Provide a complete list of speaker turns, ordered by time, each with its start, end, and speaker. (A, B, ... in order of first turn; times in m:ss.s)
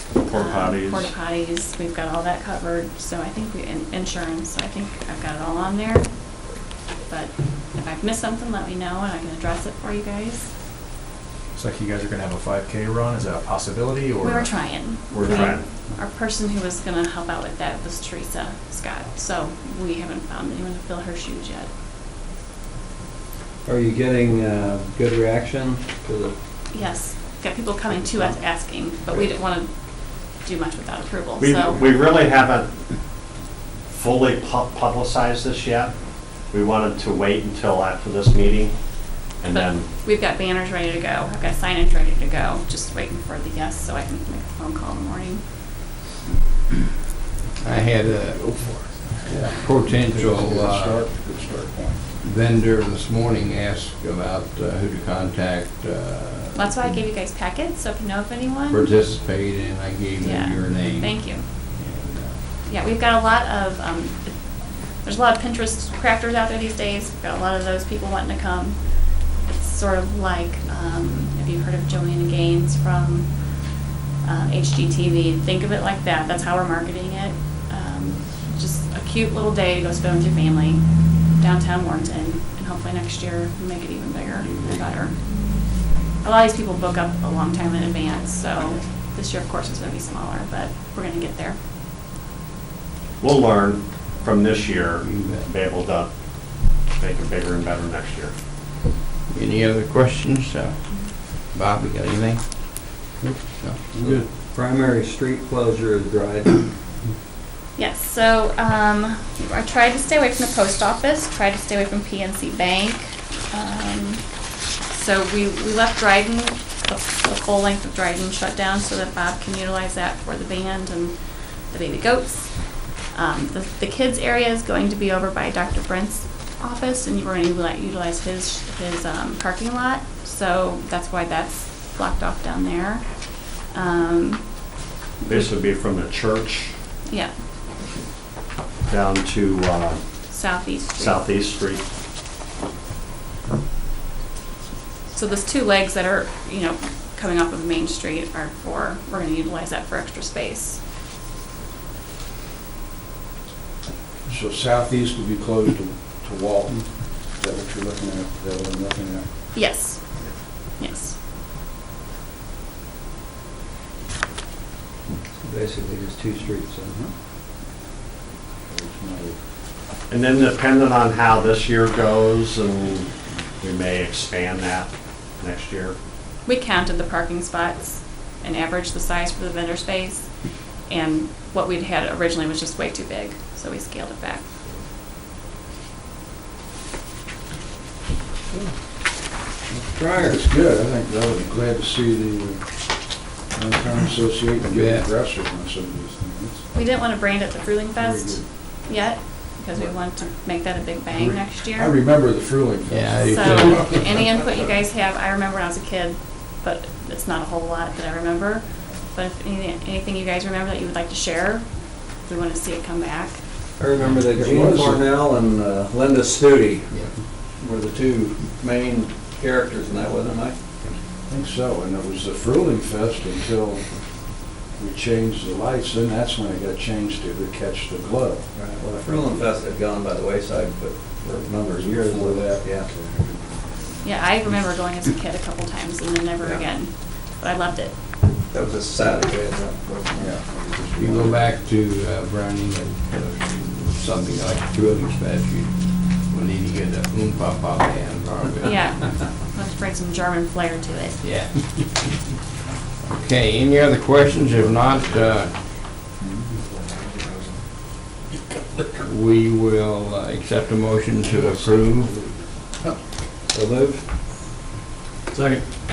0:00.1-0:01.1 A
0:00.3-0:10.5 B
0:11.6-0:14.6 C
0:14.2-0:21.7 B
0:15.1-0:15.7 A
0:23.6-0:26.4 D
0:26.7-0:31.9 B
0:28.0-0:28.4 D
0:31.4-0:32.7 A
0:33.9-0:35.9 A
0:36.5-0:39.9 A
0:39.5-0:45.5 B
0:47.6-0:51.0 E
0:49.2-0:52.0 F
0:52.2-0:56.9 E
0:56.6-0:58.9 B
0:58.7-1:02.4 E
1:00.2-1:01.5 B
1:02.7-1:13.6 B
1:14.2-1:25.6 B
1:24.4-1:25.0 E
1:26.2-1:31.6 B
1:33.2-1:38.3 A
1:35.0-1:35.5 E
1:39.3-1:44.3 E
1:43.9-1:46.8 D
1:47.8-1:54.3 B
1:54.9-2:01.2 B
2:01.7-2:14.7 B
2:15.3-2:16.7 A
2:17.1-2:17.3 B
2:18.9-2:20.0 A
2:20.3-2:21.3 B
2:20.7-2:21.8 A
2:25.1-2:30.8 B
2:34.3-2:39.3 F
2:39.5-2:41.2 B
2:45.3-2:47.1 D
2:48.7-2:49.4 F
2:50.1-2:56.0 A
2:56.5-3:04.4 B
3:09.7-3:10.4 D
3:10.2-3:16.6 F
3:14.6-3:15.1 E
3:16.8-3:21.9 B
3:18.0-3:18.4 D
3:21.1-3:24.4 F
3:22.9-3:24.0 E
3:23.3-3:33.4 B
3:33.8-3:40.6 D
3:34.3-3:35.0 F
3:41.2-3:48.5 F
3:48.6-3:52.9 D
3:51.7-3:54.1 F
3:54.0-3:58.0 B
3:58.3-4:00.3 D
4:00.2-4:01.5 F
4:01.0-4:08.8 E
4:08.6-4:11.2 B
4:11.2-4:12.2 E
4:13.0-4:15.6 E
4:16.2-4:16.6 F
4:19.0-4:22.1 E
4:21.3-4:23.0 F
4:23.5-4:24.1 D